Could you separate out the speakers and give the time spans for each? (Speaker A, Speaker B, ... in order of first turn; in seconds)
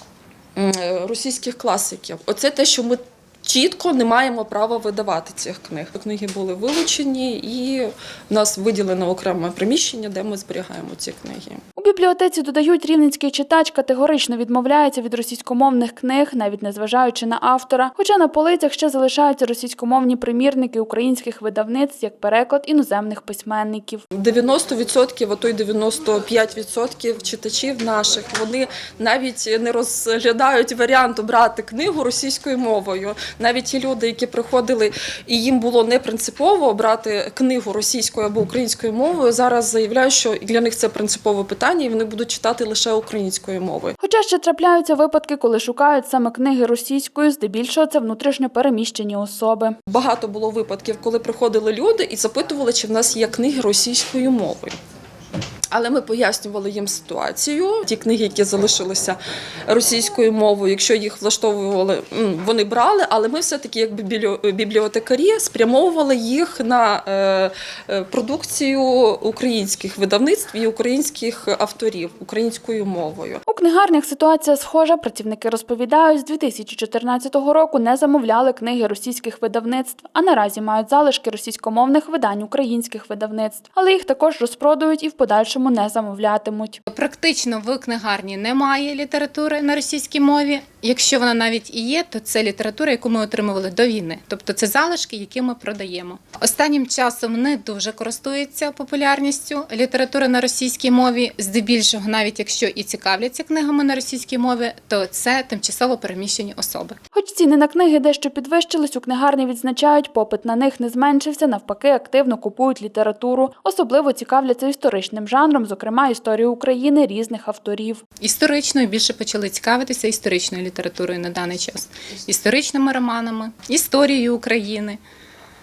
Speaker A: 0.6-11.6, 24.1-44.0, 49.9-54.8, 55.7-73.4
Speaker B: 11.8-24.0, 44.0-49.8, 73.5-86.8, 107.1-118.0
Speaker C: 86.9-107.0, 118.2-125.0